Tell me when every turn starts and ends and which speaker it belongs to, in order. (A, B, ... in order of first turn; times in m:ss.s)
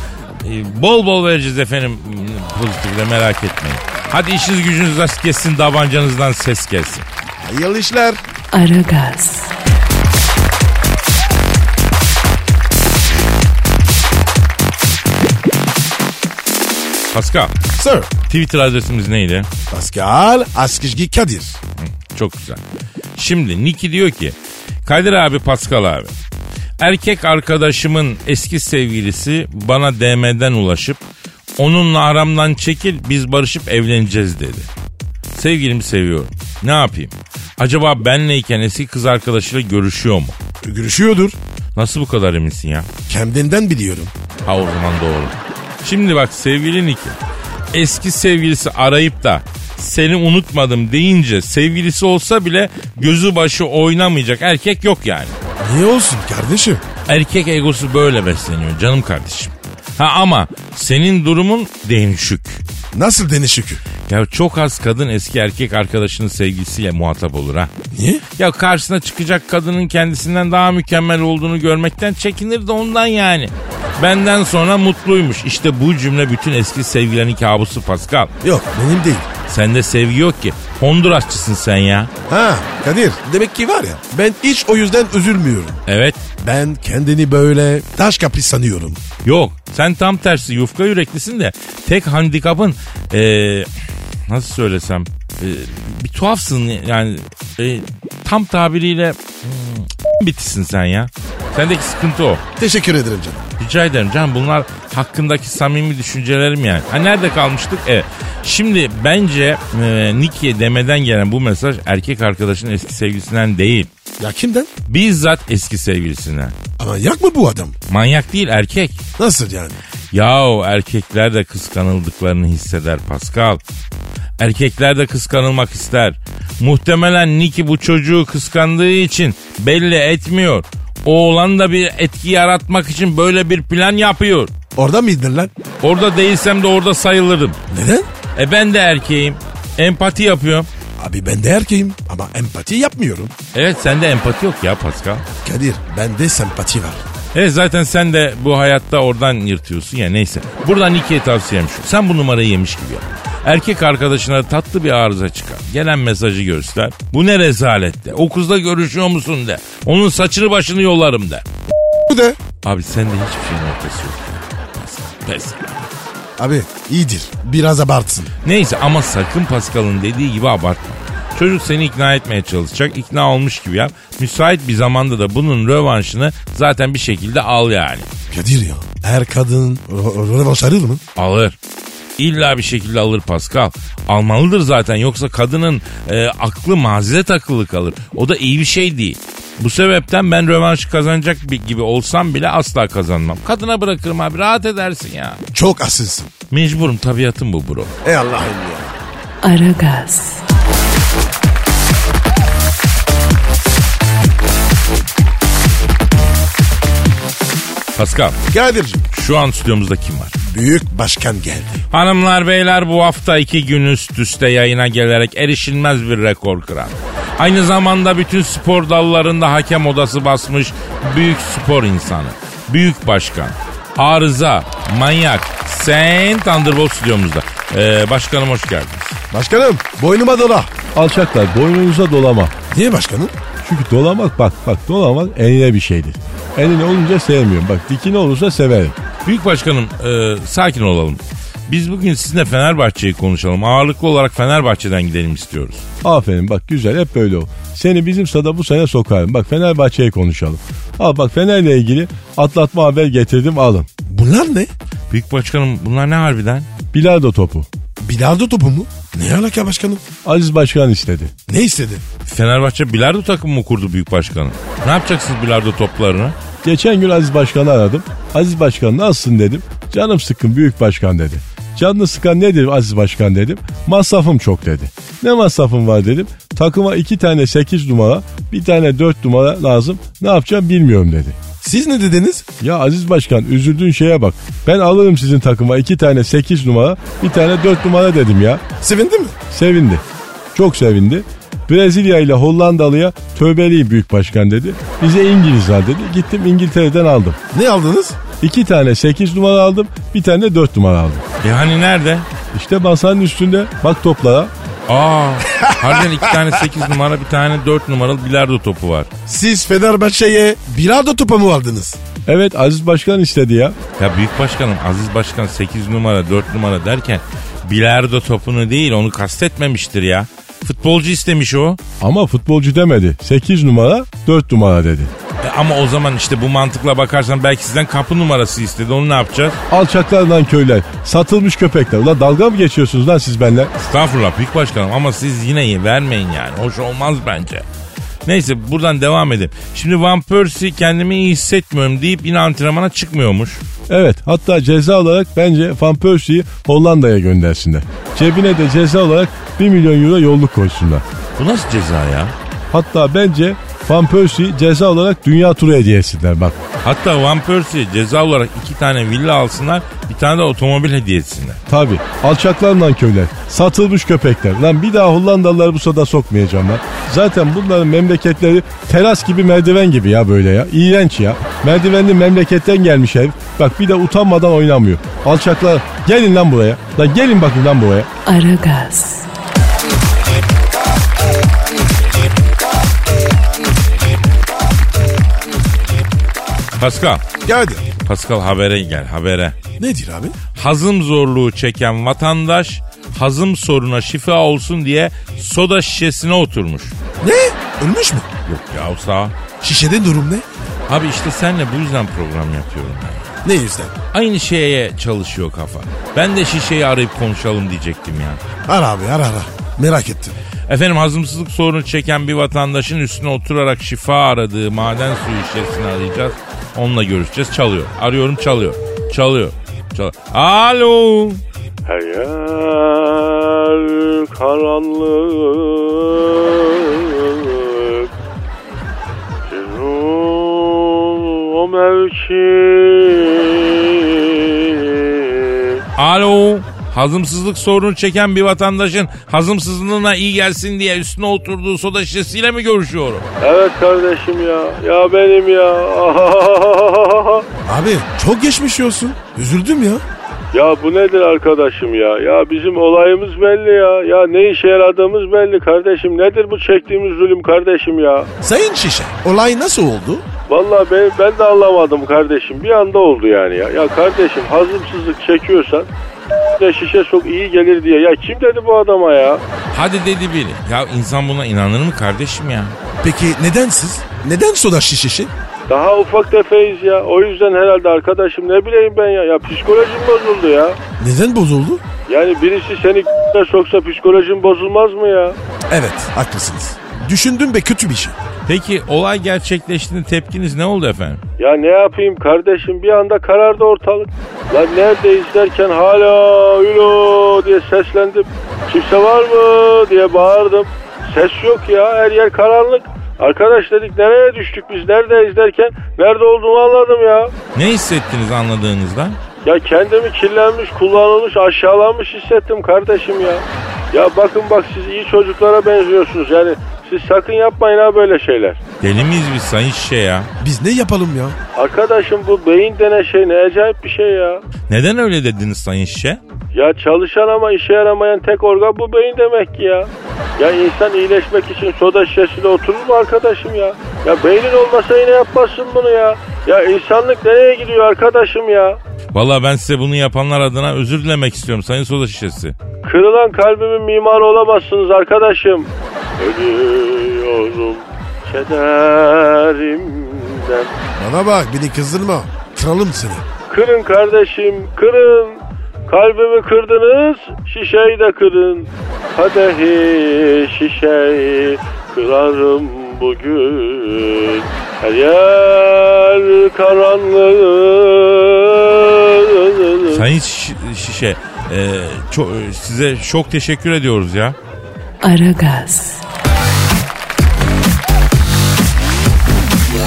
0:00.4-0:07.0 A
0:07.4-0:08.2 B
0:08.5-0:09.5 C
0:17.1-0:17.5 A
0:17.8-0:18.1 B
0:18.3-0:19.5 A
0:19.7-0:21.6 B
0:21.8-0:22.6 A
0:23.2-0:26.1 A
0:26.8-0:31.0 A
0:31.6-0:34.7 A
0:35.3-0:40.4 A
0:40.6-0:41.4 B
0:41.8-0:42.9 A
0:43.1-0:44.1 B
0:44.4-0:47.2 A
0:47.7-0:55.3 A
0:55.6-0:56.8 B
0:57.1-1:02.6 A
1:02.9-1:03.8 B
1:04.1-1:07.7 A
1:07.9-1:08.2 B
1:08.4-1:18.3 A
1:18.4-1:19.3 B
1:19.5-1:22.1 A
1:22.3-1:25.8 B
1:25.9-1:26.2 A
1:26.4-1:29.0 B
1:29.2-1:33.7 A
1:34.3-1:42.4 A
1:42.6-1:43.5 B
1:43.6-1:53.9 A
1:54.2-1:54.7 B
1:54.9-1:56.6 A
1:56.8-1:57.8 B
1:57.9-1:59.0 A
1:59.2-1:59.8 B
2:00.1-2:03.6 A
2:04.4-2:14.5 A
2:14.8-2:15.5 B
2:15.8-2:17.6 A
2:17.7-2:18.1 B
2:18.3-2:20.7 A
2:21.0-2:23.3 B
2:23.5-2:25.2 A
2:25.4-2:27.0 B
2:27.3-2:41.4 A
2:42.1-2:42.4 B
2:42.6-2:45.8 A
2:46.4-2:48.3 B
2:48.4-2:58.1 A
2:58.3-3:01.0 B
3:01.2-3:01.5 A
3:02.2-3:15.4 A
3:15.5-3:16.3 B
3:16.5-3:17.9 A
3:18.0-3:19.0 B
3:19.4-3:20.4 C
3:27.9-3:28.4 A
3:28.5-3:29.0 B
3:29.1-3:30.3 A
3:30.5-3:31.8 B
3:31.9-3:49.2 A
3:49.3-3:50.7 B
3:50.9-3:52.5 D
3:52.7-3:53.4 B
3:53.6-3:59.0 D
3:59.2-4:05.8 A
4:06.0-4:13.9 D
4:14.0-4:14.7 B
4:15.1-4:16.7 A
4:16.9-4:17.7 D
4:18.0-4:20.0 B
4:20.2-4:21.3 D
4:21.5-4:22.0 B
4:22.2-4:26.4 A
4:26.6-4:41.4 D
4:41.6-4:42.5 B
4:42.6-4:48.6 D
4:48.8-4:49.4 B
4:49.5-4:57.4 D
4:57.5-4:58.2 B
4:58.4-5:01.2 D
5:01.4-5:02.3 A
5:02.5-5:04.5 D
5:04.9-5:09.1 A
5:05.5-5:06.0 B
5:09.3-5:12.0 B
5:12.2-5:13.8 D
5:14.0-5:21.8 A
5:22.0-5:25.1 D
5:25.4-5:29.6 A
5:29.7-5:33.7 D
5:33.8-5:37.6 A
5:38.2-5:43.6 A
5:43.9-5:51.0 D
5:51.4-5:52.3 A
5:52.7-5:56.6 D
5:56.8-6:01.6 A
6:01.7-6:18.1 D
6:18.2-6:19.3 C
6:26.8-6:27.2 A
6:27.4-6:27.9 B
6:28.0-6:29.6 A
6:29.8-6:30.4 B
6:30.6-6:37.0 A
6:37.2-6:38.3 B
6:38.4-6:39.4 A
6:39.6-6:40.4 B
6:40.9-6:43.3 A
6:43.4-6:43.9 B
6:44.1-6:48.4 A
6:48.6-6:50.3 B
6:50.7-7:01.4 A
7:01.8-7:08.1 E
7:09.5-7:15.8 E
7:16.0-7:23.3 A
7:23.4-7:27.4 E
7:27.6-7:30.0 B
7:30.5-7:38.3 E
7:38.4-7:40.2 B
7:40.5-7:45.9 E
7:46.6-7:49.4 E
7:49.7-7:52.8 A
7:53.0-7:55.3 B
7:55.7-8:00.8 E
8:01.0-8:01.8 B
8:02.1-8:05.4 E
8:05.7-8:08.2 B
8:08.4-8:11.2 A
8:11.4-8:27.3 E
8:27.5-8:29.2 A
8:29.4-8:38.6 E
8:38.8-8:40.3 A
8:40.4-8:41.4 B
8:41.6-8:44.4 E
8:44.7-8:46.2 A
8:46.5-8:58.8 E
8:59.1-9:02.5 A
9:02.8-9:10.7 E
9:10.9-9:13.2 B
9:13.5-9:30.0 E
9:29.9-9:34.4 A
9:35.0-9:36.0 C